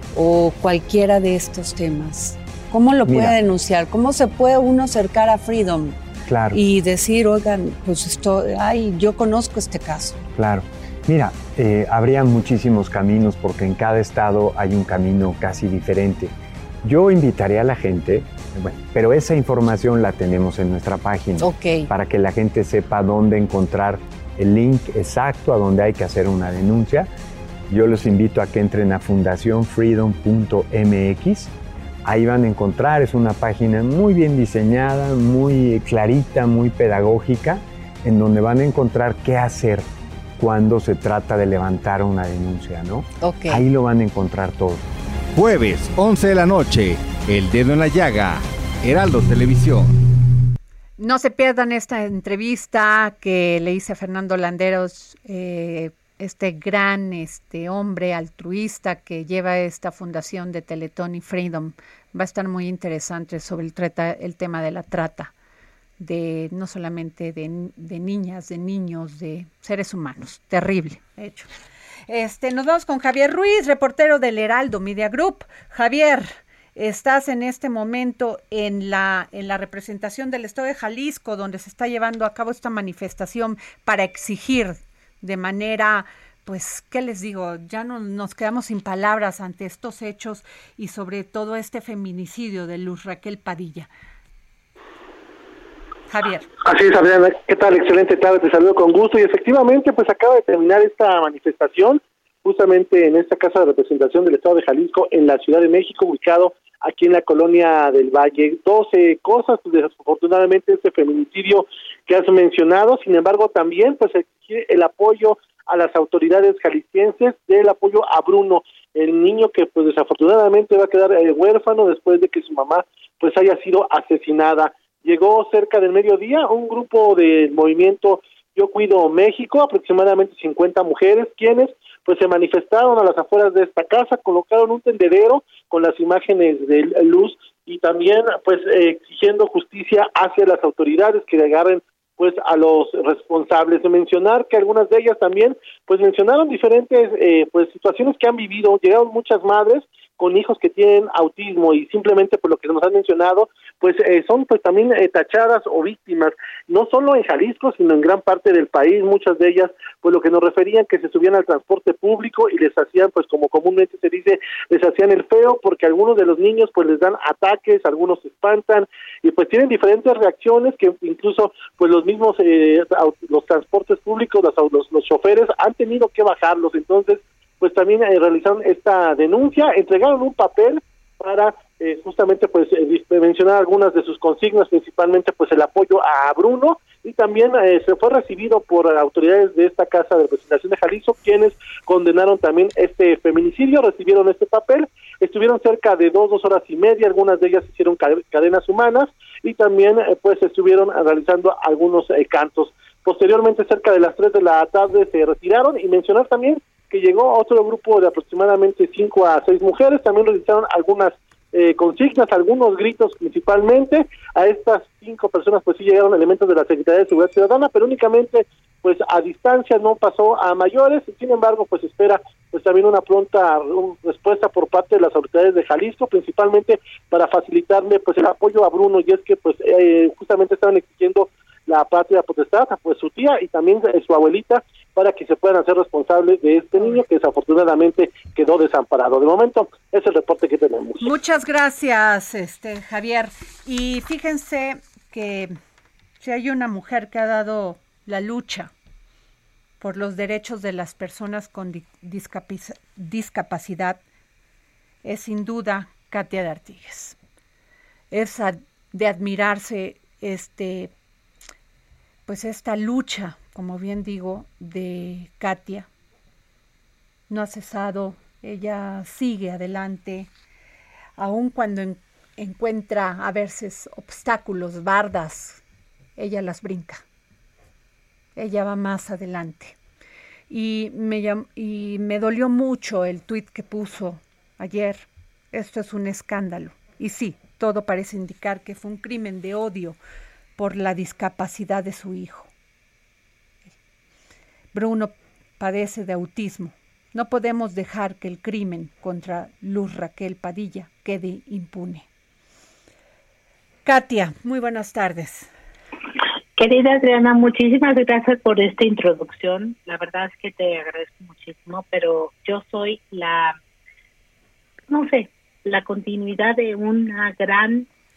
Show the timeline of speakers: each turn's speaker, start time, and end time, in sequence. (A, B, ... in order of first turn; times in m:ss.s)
0:00.1-0:06.0 A
0:03.0-0:03.4 B
0:06.3-0:06.6 B
0:06.5-0:10.2 A
0:10.3-0:27.1 B
0:21.4-0:21.9 A
0:27.7-0:31.5 B
0:32.0-0:39.8 B
0:40.4-0:44.8 B
0:43.2-0:43.6 A
0:45.3-0:49.9 C
0:51.0-1:05.3 D
1:06.0-1:11.5 D
1:12.1-1:33.9 D
1:36.1-1:36.5 D
1:36.6-4:01.1 E
4:01.0-4:05.6 D
4:06.2-4:08.7 D
4:09.8-4:14.0 D
4:15.0-4:17.2 D
4:18.1-4:20.9 D
4:22.3-4:25.9 D
4:27.3-4:30.3 D
4:31.2-4:35.6 D
4:36.2-4:37.0 D
4:38.4-4:39.8 D
4:40.5-4:50.0 D
4:50.6-4:52.5 D
4:54.7-5:02.1 D
5:03.8-5:05.5 D
5:06.6-5:13.6 F
5:14.9-5:17.9 F